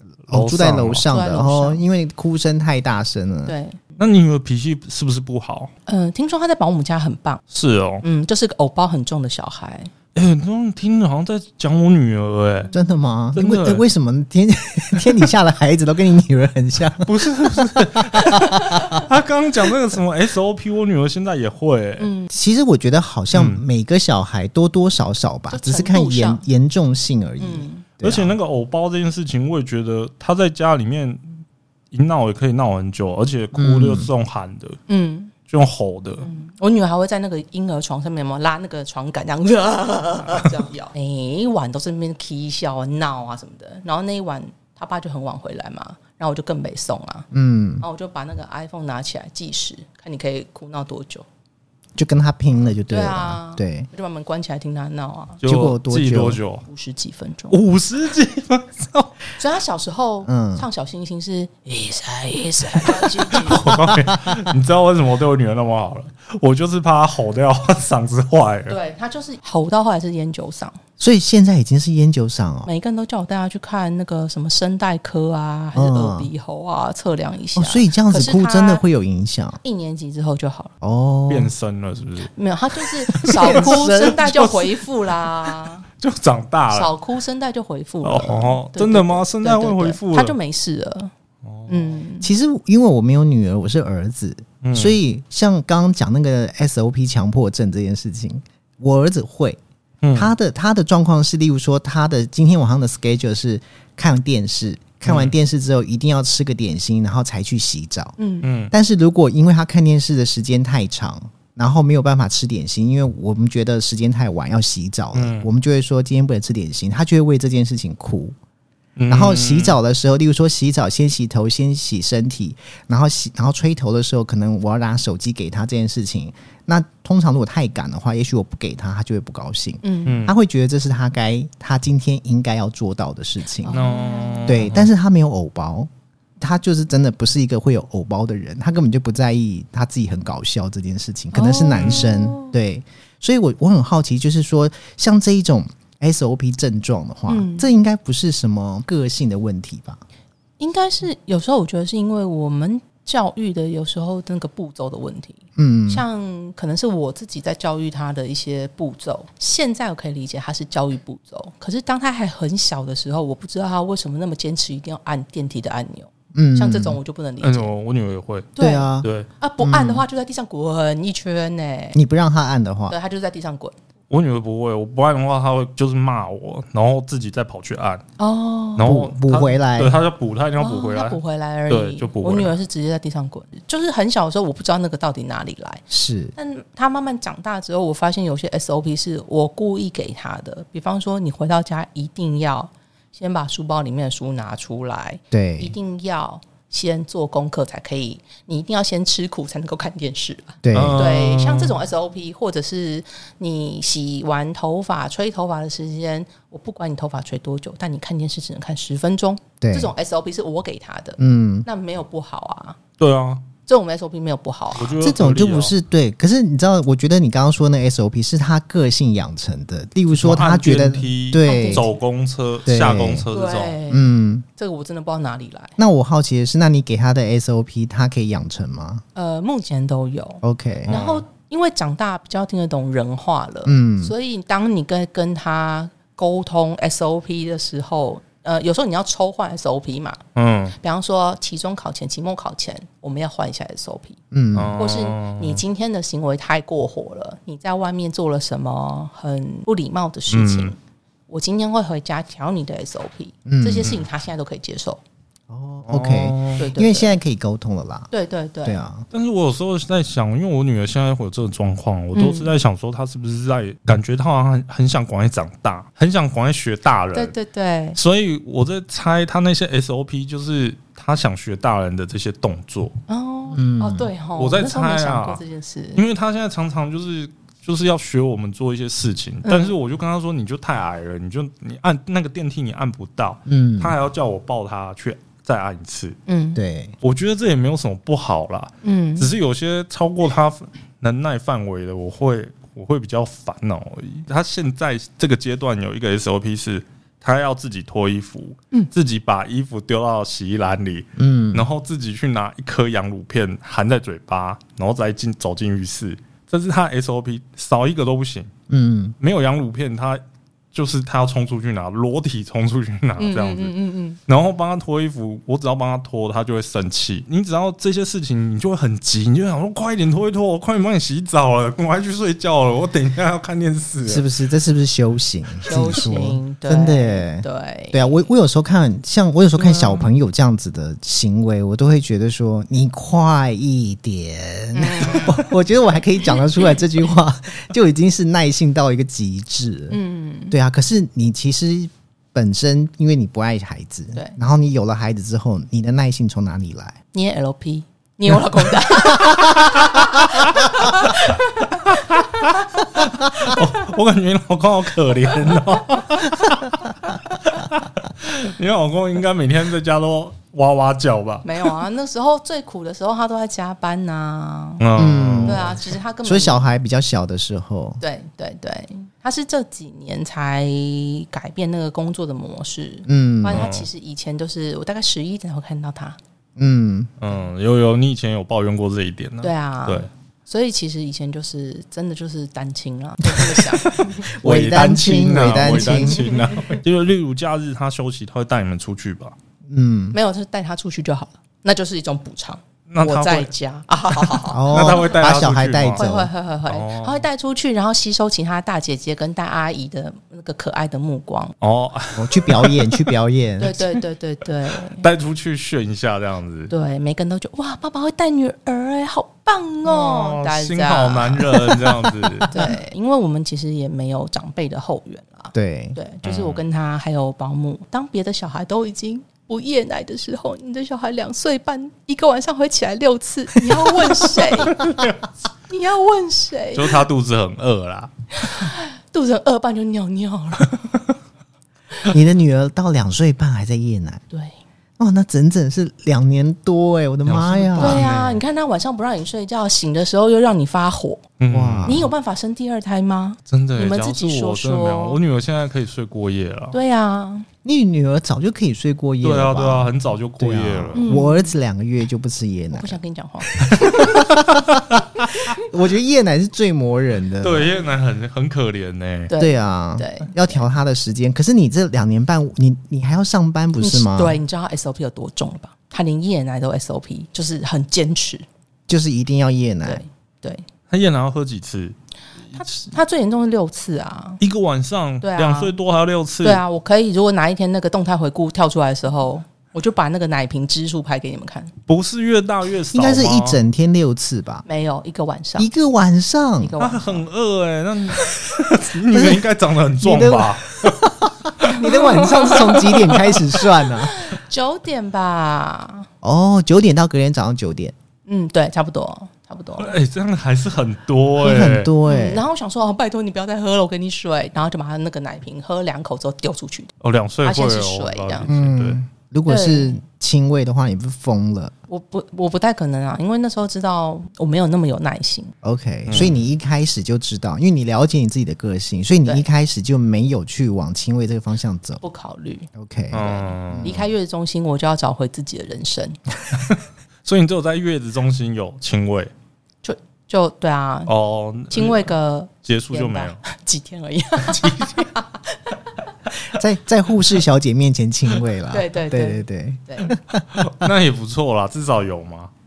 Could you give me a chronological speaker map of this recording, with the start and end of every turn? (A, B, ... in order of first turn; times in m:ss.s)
0:00.3-0:03.6 A
0:00.3-0:01.0 B
0:01.1-0:01.8 C
0:03.5-0:03.8 C
0:04.0-0:05.7 B
0:05.9-0:07.4 C
0:07.5-0:08.0 B
0:08.0-0:09.9 C
0:10.2-0:12.7 B
0:12.7-0:19.0 A
0:13.4-0:13.8 B
0:17.0-0:22.1 B
0:18.6-0:19.0 C
0:22.0-0:22.3 C
0:22.3-0:28.4 A
0:23.3-0:23.6 B
0:25.5-0:26.4 C
0:27.4-0:27.8 C
0:28.0-0:31.4 B
0:31.9-0:34.8 B
0:33.5-0:34.1 A
0:34.9-0:35.3 C
0:35.5-0:36.3 B
0:36.2-0:47.3 C
0:47.3-0:47.8 A
0:47.8-0:51.3 C
0:52.0-0:53.9 A
0:52.9-0:55.4 C
0:55.4-0:56.6 B
0:55.4-0:56.4 A
0:56.6-0:57.6 C
0:57.5-0:59.1 B
0:59.4-1:03.7 C
1:00.2-1:00.7 A
1:02.9-1:08.8 B
1:03.9-1:04.1 A
1:08.7-1:10.8 C
1:11.0-1:12.7 A
1:12.6-1:18.8 C
1:15.7-1:16.3 A
1:17.6-1:19.6 A
1:19.6-1:20.7 C
1:20.8-1:21.5 A
1:21.3-1:22.3 B
1:22.3-1:25.8 C
1:22.8-1:24.6 B
1:23.3-1:24.4 A
1:25.5-1:26.9 B
1:26.7-1:31.1 C
1:28.0-1:30.4 B
1:31.4-1:31.9 B
1:31.7-1:32.3 C
1:32.2-1:39.6 A
1:34.6-1:35.0 B
1:40.0-1:40.3 B
1:40.2-1:48.2 A
1:45.1-1:45.3 B
1:48.2-1:48.5 C
1:48.4-1:48.7 B
1:48.7-1:58.4 A
1:55.1-1:55.5 B
1:59.0-1:59.8 B
1:59.1-2:13.8 A
2:09.8-2:10.2 C
2:10.1-2:10.4 B
2:13.6-2:14.7 C
2:13.7-2:14.9 B
2:14.5-2:30.0 A
2:21.3-2:22.5 C
2:21.8-2:22.1 B
2:27.3-2:27.7 C
2:30.6-2:47.7 C
2:35.6-2:36.0 A
2:46.3-2:47.0 A
2:47.4-2:49.3 B
2:48.6-2:52.0 C
2:48.6-2:49.1 A
2:49.6-2:50.0 A
2:51.9-2:53.0 A
2:52.9-2:53.8 C
2:54.1-2:58.0 B
2:58.2-2:58.9 C
2:58.8-3:02.5 B
2:58.8-3:00.0 A
3:00.6-3:05.8 C
3:05.9-3:06.3 A
3:06.4-3:32.8 C
3:15.3-3:15.8 A
3:20.6-3:21.0 A
3:20.7-3:21.7 B
3:29.6-3:29.9 A
3:31.2-3:31.7 A
3:33.0-3:33.4 B
3:33.7-3:35.0 C
3:34.8-3:35.7 B
3:35.0-3:41.9 A
3:40.1-3:43.8 B
3:41.4-3:41.9 C
3:42.7-3:43.3 A
3:43.3-3:44.1 C
3:43.9-3:44.4 A
3:44.6-3:45.8 C
3:45.8-3:49.0 A
3:49.2-4:00.2 C
3:50.4-3:51.0 A
3:50.9-3:51.2 B
3:53.6-3:54.1 A
4:00.4-4:00.8 B
4:00.8-4:04.2 C
4:04.3-4:04.8 A
4:04.5-4:05.6 B
4:04.8-4:10.8 C
4:10.3-4:10.7 B
4:11.3-4:15.0 C
4:13.5-4:13.9 A
4:15.5-4:18.1 A
4:15.9-4:16.6 B
4:16.6-4:17.2 C
4:18.1-4:18.8 C
4:18.6-4:19.0 A
4:19.1-4:27.3 B
4:22.1-4:22.5 C
4:27.1-4:28.0 C
4:28.0-4:33.0 B
4:33.1-4:36.0 C
4:33.5-4:34.1 A
4:34.4-4:35.4 B
4:36.0-4:46.2 B
4:39.4-4:39.7 C
4:43.5-4:44.0 A
4:46.3-4:46.6 C
4:46.6-4:46.9 A
4:47.0-5:08.5 B
4:48.8-4:49.3 C
5:01.2-5:01.7 A
5:08.7-5:09.2 A
5:09.2-5:10.2 B
5:10.7-5:13.8 B
5:13.2-5:14.2 C
5:14.3-5:24.3 B
5:24.0-5:40.0 A
5:25.6-5:28.2 C
5:29.6-5:30.1 B
5:34.7-5:35.5 C
5:39.9-5:40.6 C
5:40.5-5:47.0 A
5:47.1-5:53.6 C
5:49.2-5:49.7 B
5:51.9-6:01.7 B
6:01.4-6:04.9 C
6:04.8-6:05.7 B
6:05.0-6:08.0 A
6:05.4-6:06.7 C
6:08.0-6:16.2 C
6:13.1-6:13.7 A
6:13.5-6:13.9 B
6:16.6-6:17.1 A
6:17.2-6:20.1 B
6:19.4-6:24.2 C
6:23.9-6:29.4 B
6:24.2-6:26.2 A
6:26.0-6:26.6 C
6:29.7-6:30.2 A
6:30.1-6:34.6 C
6:32.9-6:33.5 B
6:34.2-6:36.0 B
6:34.5-6:36.3 A
6:36.0-6:41.6 C
6:36.7-6:37.3 B
6:41.6-6:43.1 B
6:42.2-6:43.8 A
6:43.6-6:45.1 C
6:45.0-6:46.7 B
6:46.7-7:04.8 C
6:49.8-6:52.6 B
6:55.5-6:56.0 A
6:56.2-6:56.6 B
7:04.3-7:05.2 B
7:05.7-7:07.0 C
7:06.8-7:08.6 B
7:08.4-7:10.9 C
7:12.1-7:14.2 A
7:14.3-7:14.6 C
7:15.0-7:18.0 A
7:17.3-7:18.4 B
7:17.8-7:21.3 C
7:21.4-7:22.1 B
7:21.5-7:22.1 A
7:21.9-7:25.2 C
7:23.5-7:26.8 B
7:26.7-7:27.5 C
7:27.6-7:33.0 A
7:29.2-7:31.1 B
7:31.0-7:31.5 C
7:32.7-7:34.3 C
7:33.7-7:37.8 A
7:37.4-7:39.3 B
7:39.3-7:40.6 C
7:39.4-7:44.4 A
7:43.8-7:48.5 C
7:48.9-7:50.0 A
7:49.8-7:50.6 C
7:50.9-7:52.0 B
7:52.5-7:52.9 B
7:52.6-7:54.4 C
7:54.4-7:56.6 B
7:55.2-7:55.7 C
7:56.4-8:01.7 C
8:01.9-8:03.6 B
8:02.9-8:04.6 A
8:04.6-8:05.7 C
8:05.6-8:06.8 A
8:06.6-8:07.2 C
8:06.8-8:12.6 B
8:09.1-8:09.5 A
8:10.0-8:14.2 A
8:11.6-8:16.1 C
8:16.2-8:18.0 A
8:18.3-8:20.0 C
8:19.8-8:21.9 B
8:21.4-8:22.4 A
8:22.1-8:28.5 C
8:27.0-8:29.0 B
8:28.5-8:31.7 A
8:29.5-8:30.0 C
8:31.9-8:35.5 C
8:35.6-8:42.0 A
8:36.1-8:36.4 B
8:42.0-8:46.2 C
8:42.7-8:44.1 A
8:43.1-8:43.9 B
8:46.6-8:49.3 B
8:49.8-8:51.1 C
8:51.1-8:52.1 B
8:51.7-8:55.9 C
8:52.6-8:53.4 B
8:54.5-8:55.1 B
8:56.5-9:00.9 A
8:58.7-9:00.2 C
9:00.6-9:02.5 B